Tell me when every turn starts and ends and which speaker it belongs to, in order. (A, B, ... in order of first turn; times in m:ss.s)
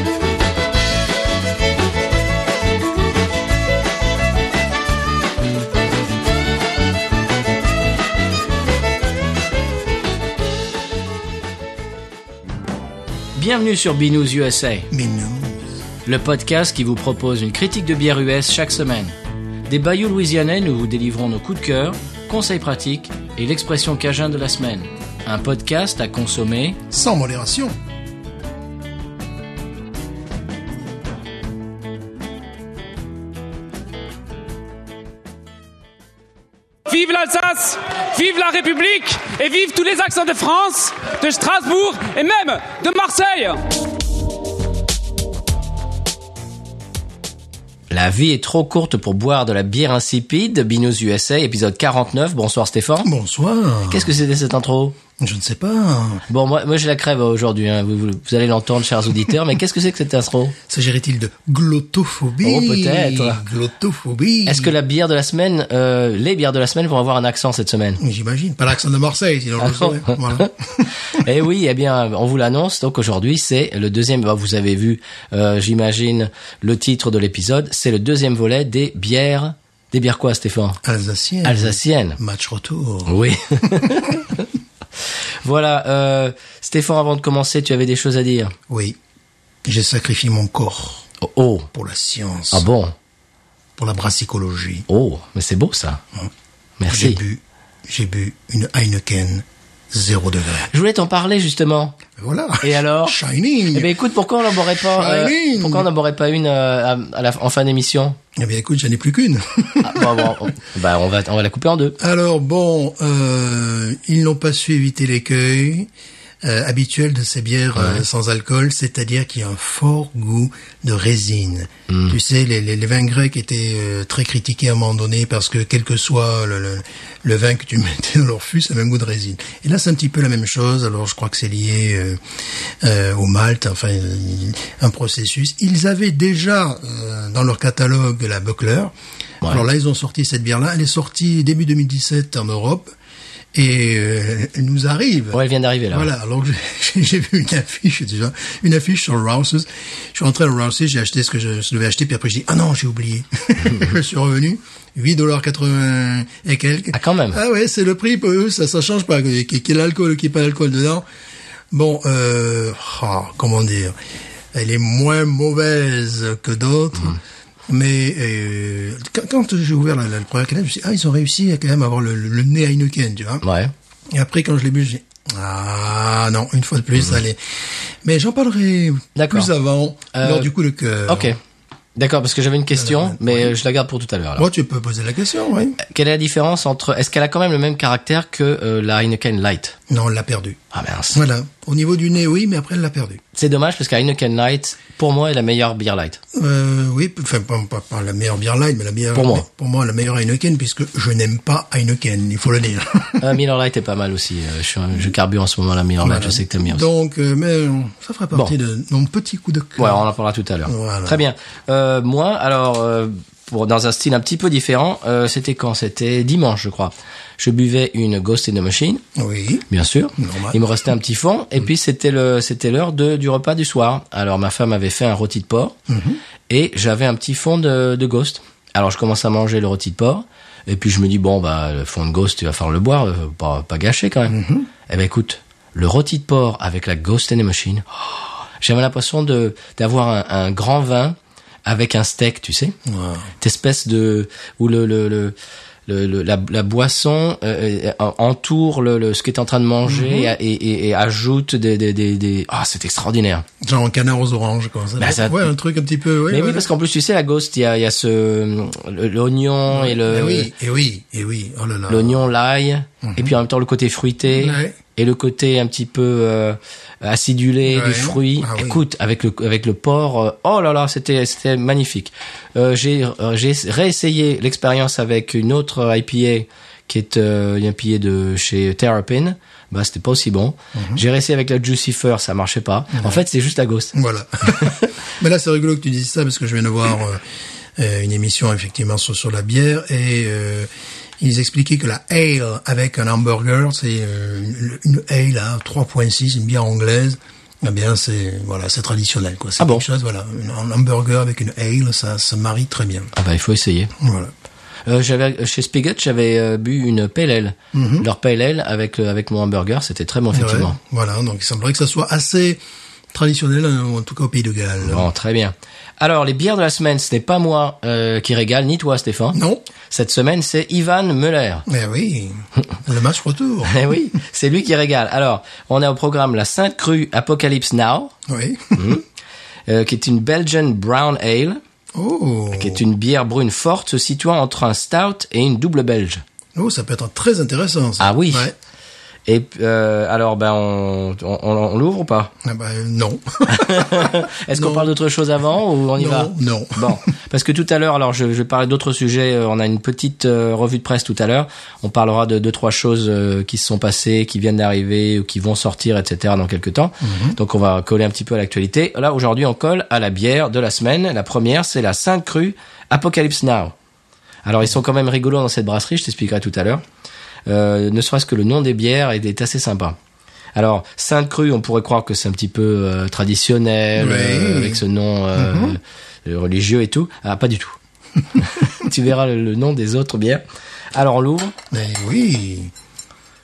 0:13.4-0:14.9 A
0:14.9-0:15.6 B
0:16.0-0:19.1 A
0:19.7-0:26.8 A
0:26.9-0:27.8 B
0:36.9-0:43.6 C
0:47.9-0:53.1 A
0:53.0-0:54.1 B
0:53.9-0:55.0 A
0:55.2-0:56.2 B
0:56.3-1:00.6 A
1:00.7-1:04.7 B
1:02.4-1:03.4 A
1:04.4-1:08.0 A
1:08.0-1:10.9 B
1:09.6-1:10.5 A
1:11.0-1:20.8 A
1:20.8-1:24.2 B
1:21.4-1:22.2 A
1:23.0-1:24.5 A
1:25.4-1:28.5 A
1:28.7-1:29.0 B
1:29.6-1:31.1 B
1:31.2-1:31.7 A
1:31.7-1:32.7 B
1:32.5-1:32.9 A
1:33.8-1:34.8 B
1:34.9-1:36.0 A
1:36.8-1:37.2 A
1:36.9-1:40.7 B
1:40.7-1:42.0 A
1:42.2-1:43.9 B
1:42.6-1:43.2 A
1:43.7-1:48.2 A
1:44.8-1:45.9 B
1:48.4-1:50.3 B
1:49.8-1:52.0 A
1:52.0-1:55.9 B
1:56.4-2:22.9 B
1:57.8-1:58.0 A
2:01.9-2:02.2 A
2:23.5-2:41.0 B
2:25.3-2:26.1 A
2:36.9-2:37.4 A
2:41.7-2:43.9 B
2:44.5-2:53.4 B
2:53.4-2:53.7 A
2:54.1-3:01.3 B
2:59.1-2:59.5 A
3:00.1-3:00.5 A
3:01.1-3:01.4 A
3:02.0-3:04.4 A
3:02.8-3:03.5 B
3:04.4-3:05.8 B
3:05.8-3:09.8 A
3:09.9-3:10.6 B
3:10.7-3:11.2 A
3:11.1-3:13.2 B
3:13.3-3:16.2 A
3:16.3-3:23.2 B
3:19.1-3:19.4 A
3:23.2-3:26.9 A
3:26.0-3:30.0 B
3:29.8-3:39.0 A
3:30.6-3:31.2 B
3:39.1-3:39.6 B
3:39.7-3:45.8 A
3:40.2-3:40.6 B
3:45.9-3:46.2 B
3:46.5-3:58.0 A
3:54.3-3:54.7 B
3:58.6-4:02.8 A
4:02.8-4:03.3 B
4:03.4-4:05.3 A
4:05.9-4:13.4 A
4:09.8-4:10.3 B
4:13.6-4:16.7 B
4:15.0-4:15.5 A
4:16.3-4:20.5 A
4:19.7-4:22.2 B
4:21.9-4:43.9 A
4:23.0-4:23.3 B
4:24.3-4:24.8 B
4:27.6-4:28.8 B
4:40.7-4:41.0 B
4:42.9-4:43.2 B
4:43.9-4:47.2 B
4:44.5-4:44.9 A
4:47.8-5:03.1 B
4:59.6-4:59.8 A
5:03.1-5:03.9 A
5:04.0-5:04.3 B
5:04.8-5:10.8 A
5:07.7-5:08.1 B
5:10.3-5:12.6 B
5:13.1-5:15.1 B
5:14.8-5:19.4 A
5:19.3-5:19.6 B
5:19.9-5:21.6 A
5:21.7-5:24.0 B
5:23.6-5:28.1 A
5:28.3-5:29.0 B
5:28.7-5:29.0 A
5:29.7-5:31.6 A
5:31.9-5:32.8 B
5:32.5-5:36.2 A
5:36.5-5:38.5 B
5:38.0-5:38.5 A
5:39.3-5:42.3 A
5:42.4-5:44.9 B
5:43.5-6:03.7 A
5:46.0-5:47.0 B
5:57.0-5:57.4 B
6:04.4-6:06.8 A
6:07.4-6:10.0 A
6:10.5-6:17.8 A
6:14.0-6:14.8 B
6:15.3-6:15.8 B
6:18.4-6:20.4 A
6:20.9-6:21.5 A
6:21.7-6:22.7 B